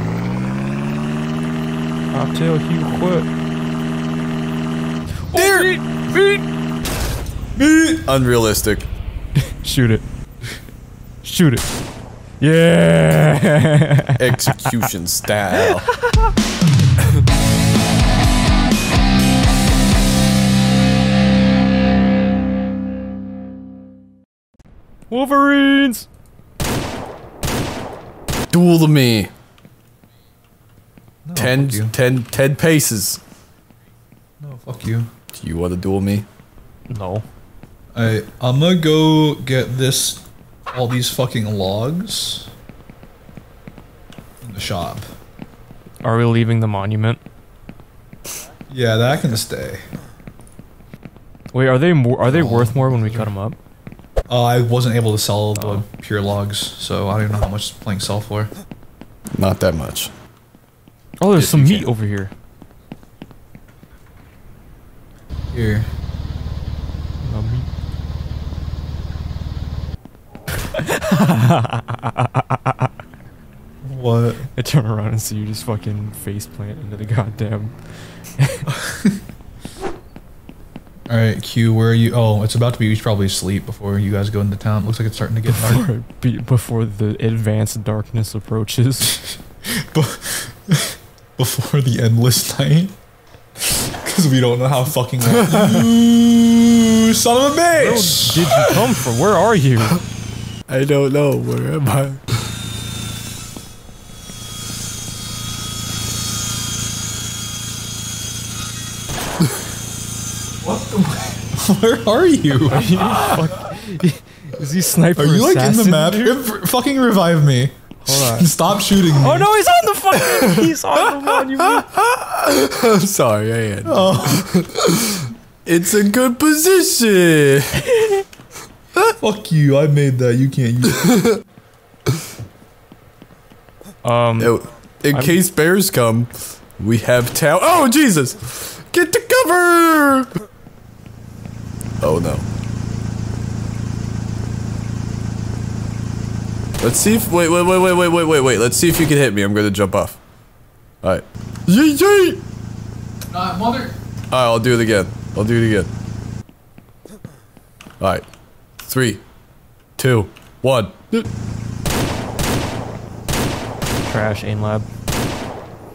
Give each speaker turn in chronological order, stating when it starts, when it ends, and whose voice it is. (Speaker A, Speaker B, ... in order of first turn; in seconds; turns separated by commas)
Speaker A: 2.1-3.3, Speaker A: 5.3-6.4, Speaker B: 5.3-5.7, Speaker C: 7.5-8.0, Speaker B: 8.1-8.9, Speaker A: 9.4-10.0, Speaker A: 11.2-11.7, Speaker A: 12.4-14.8, Speaker B: 14.2-15.9, Speaker A: 15.6-16.3, Speaker A: 25.1-26.1, Speaker B: 28.5-29.3, Speaker C: 31.2-31.9, Speaker B: 31.4-33.2, Speaker C: 34.4-35.1, Speaker B: 35.3-36.2, Speaker A: 36.9-37.2, Speaker C: 37.9-42.5, Speaker C: 44.4-45.0, Speaker A: 46.0-47.2, Speaker C: 48.7-49.8, Speaker A: 51.5-53.6, Speaker C: 52.2-53.3, Speaker C: 54.3-58.5, Speaker A: 55.5-55.8, Speaker B: 59.3-60.1, Speaker A: 61.2-62.3, Speaker B: 61.4-61.9, Speaker C: 65.5-65.9, Speaker A: 67.2-67.7, Speaker A: 70.7-72.9, Speaker C: 73.8-74.5, Speaker A: 74.5-77.7, Speaker A: 78.4-78.7, Speaker C: 78.7-79.2, Speaker C: 81.1-85.8, Speaker A: 85.5-89.2, Speaker C: 89.1-92.9, Speaker C: 93.6-98.7, Speaker B: 95.2-95.9, Speaker A: 97.7-100.0, Speaker B: 100.7-102.2, Speaker C: 110.6-113.4, Speaker A: 112.7-116.4, Speaker C: 115.2-119.5, Speaker A: 118.0-118.5, Speaker A: 119.2-121.9, Speaker B: 120.1-127.8, Speaker C: 123.8-124.5, Speaker A: 127.8-128.2, Speaker C: 129.2-131.1, Speaker B: 131.0-131.3, Speaker A: 134.0-134.5, Speaker B: 134.4-140.3, Speaker A: 135.1-135.4, Speaker B: 142.0-142.4, Speaker B: 146.8-150.2, Speaker B: 151.0-152.4, Speaker C: 153.3-153.9, Speaker B: 154.3-155.9, Speaker B: 158.0-158.2, Speaker B: 158.8-159.2, Speaker B: 160.0-161.3, Speaker A: 164.1-164.8